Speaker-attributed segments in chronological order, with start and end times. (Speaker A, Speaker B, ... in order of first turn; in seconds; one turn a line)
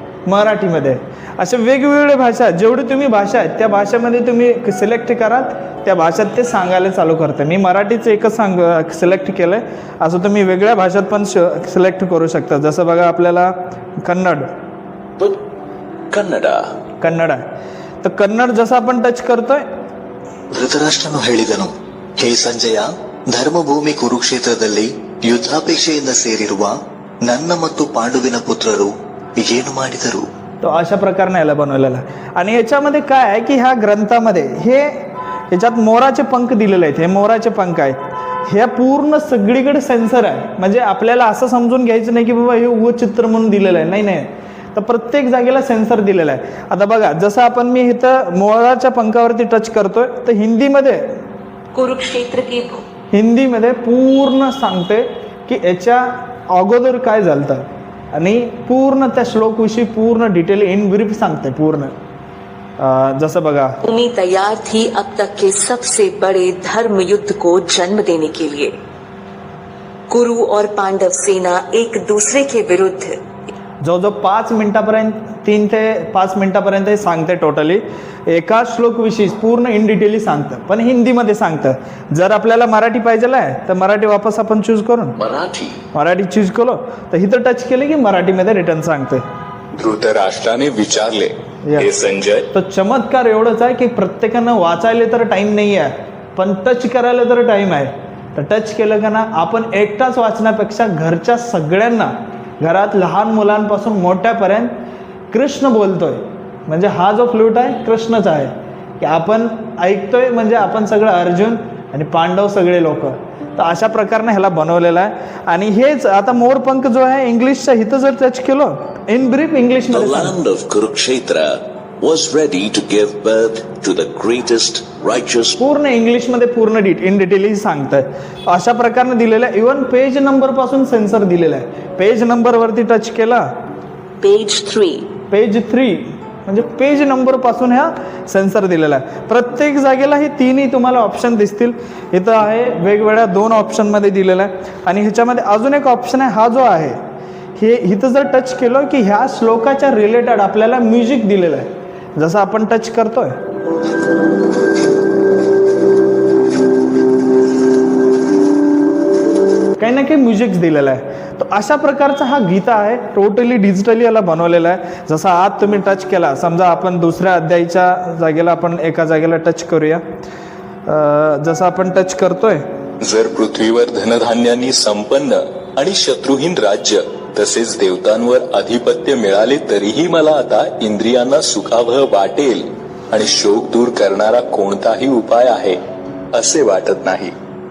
Speaker A: 0.3-14.5
Speaker B: 16.1-16.6
Speaker A: 17.0-17.4
Speaker A: 18.0-19.6
Speaker C: 20.5-30.3
Speaker A: 30.6-38.0
Speaker A: 38.5-51.0
Speaker D: 51.8-52.8
Speaker A: 53.1-61.9
Speaker A: 62.8-63.8
Speaker D: 63.8-68.8
Speaker D: 70.1-73.2
Speaker A: 73.8-85.2
Speaker B: 85.2-85.8
Speaker A: 85.9-89.2
Speaker E: 89.8-92.5
Speaker A: 92.5-104.7
Speaker A: 105.3-120.4
Speaker B: 119.9-125.6
Speaker A: 125.6-133.5
Speaker D: 134.2-135.1
Speaker A: 135.3-147.0
Speaker A: 147.6-153.3
Speaker A: 159.8-170.0
Speaker A: 170.9-172.6
Speaker E: 173.0-185.8
Speaker E: 186.3-187.3